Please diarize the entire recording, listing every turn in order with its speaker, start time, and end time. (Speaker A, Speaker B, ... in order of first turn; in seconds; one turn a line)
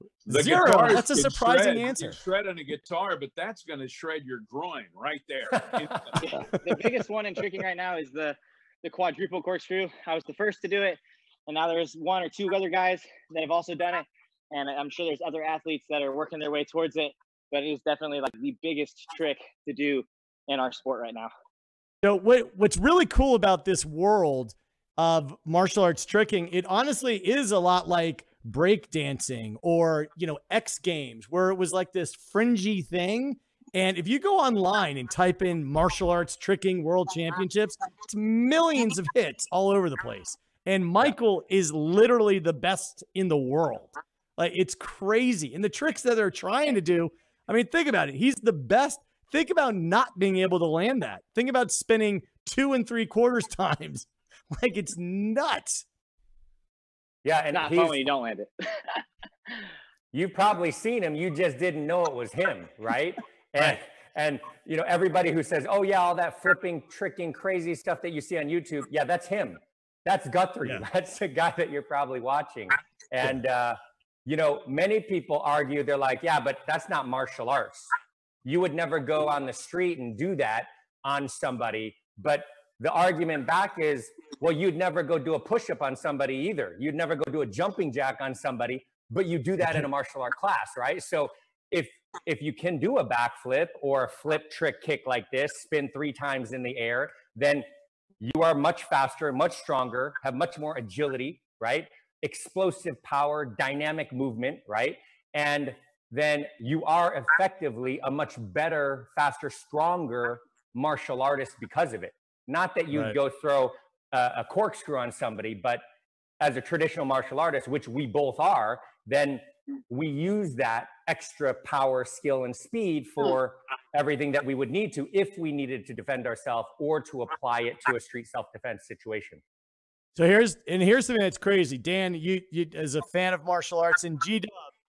Speaker A: 0.3-2.2
Speaker B: 0.3-6.3
Speaker C: 6.2-21.3
Speaker A: 22.0-55.8
Speaker D: 57.2-58.0
Speaker C: 57.5-59.0
Speaker D: 60.1-77.9
Speaker D: 78.4-97.7
Speaker D: 98.2-115.8
Speaker D: 116.4-129.4
Speaker A: 130.2-134.7